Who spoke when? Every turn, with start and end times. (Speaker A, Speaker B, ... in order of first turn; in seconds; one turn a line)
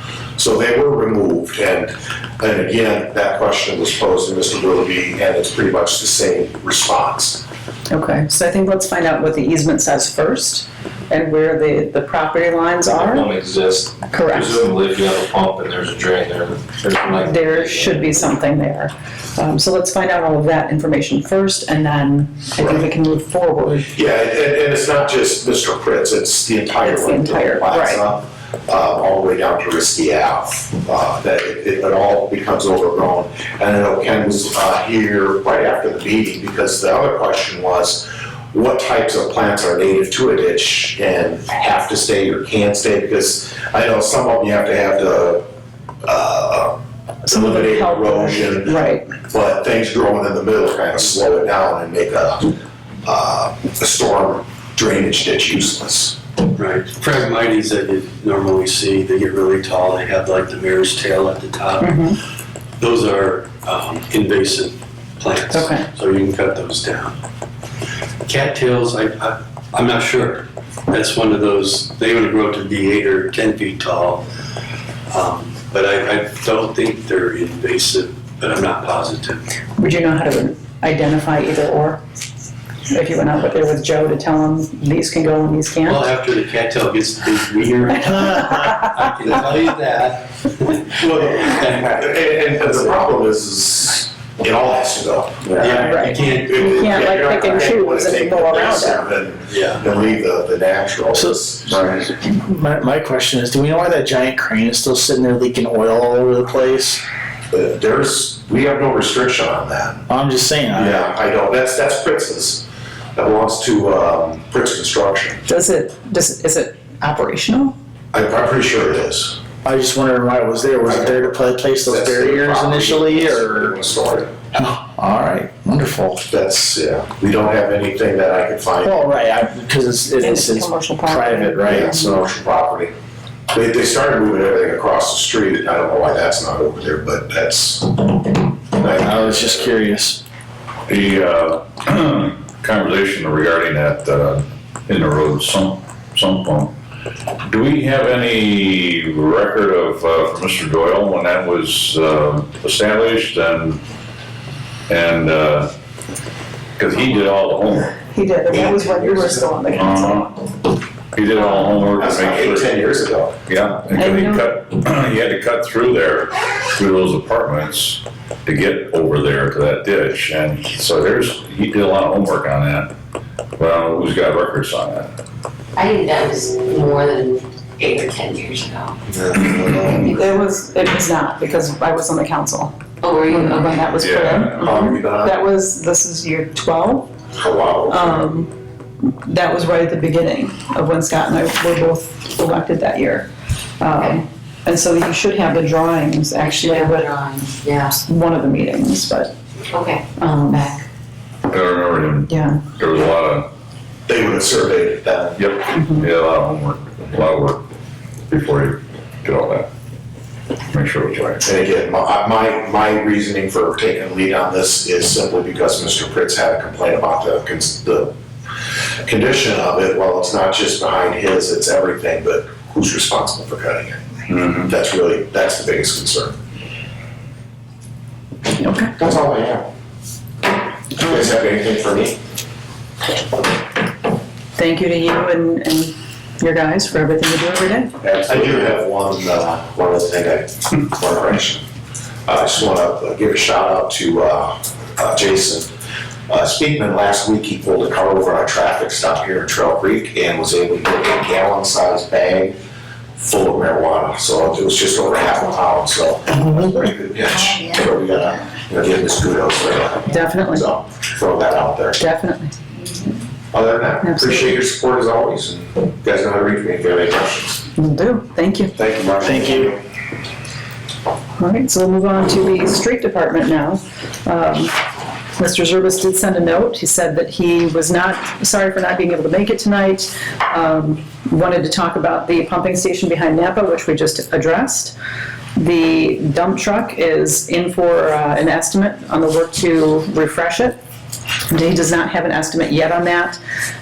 Speaker A: 0.4-7.4
Speaker B: 7.9-13.3
Speaker C: 12.9-18.1
Speaker B: 14.1-14.6
Speaker B: 17.2-23.9
Speaker A: 22.6-22.9
Speaker A: 23.8-45.5
Speaker B: 26.8-28.0
Speaker A: 46.1-52.5
Speaker B: 47.2-49.0
Speaker A: 53.0-56.2
Speaker D: 56.5-62.1
Speaker B: 61.8-62.2
Speaker D: 62.8-67.2
Speaker B: 65.5-65.9
Speaker D: 68.2-74.3
Speaker D: 75.1-79.5
Speaker B: 79.8-82.0
Speaker B: 82.9-86.1
Speaker D: 85.9-92.0
Speaker B: 88.4-88.7
Speaker A: 91.1-102.0
Speaker D: 95.6-96.5
Speaker B: 95.8-99.1
Speaker D: 99.5-99.8
Speaker E: 101.2-107.0
Speaker A: 107.5-110.1
Speaker E: 110.1-111.1
Speaker A: 110.7-112.7
Speaker A: 113.2-115.5
Speaker B: 115.5-117.8
Speaker A: 118.1-119.4
Speaker E: 119.6-123.8
Speaker A: 120.8-124.4
Speaker E: 124.5-126.2
Speaker A: 126.3-129.0
Speaker E: 128.8-132.2
Speaker B: 130.2-131.9
Speaker A: 131.6-132.9
Speaker A: 133.5-139.8
Speaker E: 138.9-140.2
Speaker F: 140.9-146.7
Speaker F: 147.4-153.8
Speaker F: 154.9-155.7
Speaker F: 156.8-158.0
Speaker B: 158.0-160.3
Speaker A: 158.5-159.5
Speaker F: 159.7-160.3
Speaker F: 161.1-162.8
Speaker B: 161.3-161.7
Speaker A: 161.9-163.3
Speaker F: 163.5-172.9
Speaker B: 163.9-164.4
Speaker F: 173.6-175.1
Speaker G: 175.8-178.9
Speaker A: 179.2-179.9
Speaker F: 179.7-180.0
Speaker B: 180.1-182.7
Speaker G: 183.0-183.8
Speaker B: 183.2-187.1
Speaker F: 183.9-185.0
Speaker A: 184.6-185.4
Speaker A: 187.3-188.3
Speaker B: 187.9-188.5
Speaker B: 189.2-193.3
Speaker B: 193.8-197.0
Speaker G: 196.4-198.0
Speaker B: 198.0-199.3
Speaker G: 199.7-200.8
Speaker B: 200.2-200.6
Speaker F: 201.5-203.5
Speaker B: 202.3-202.6
Speaker A: 204.1-205.4
Speaker F: 205.4-207.6
Speaker B: 205.7-206.1
Speaker F: 208.3-209.7
Speaker F: 210.7-211.4
Speaker A: 211.4-218.1
Speaker A: 219.0-226.4
Speaker B: 228.6-228.9
Speaker A: 228.9-229.7
Speaker A: 231.0-232.2
Speaker B: 234.6-237.9
Speaker A: 238.0-241.6
Speaker A: 242.2-245.7
Speaker A: 246.3-252.6
Speaker A: 253.2-262.0
Speaker B: 260.1-260.6
Speaker B: 262.0-262.6
Speaker A: 263.5-267.6
Speaker B: 264.0-264.6
Speaker B: 267.8-268.7
Speaker A: 268.8-269.8
Speaker E: 269.2-269.7
Speaker B: 271.4-274.8
Speaker B: 275.4-284.9
Speaker B: 285.6-290.8
Speaker B: 291.5-293.4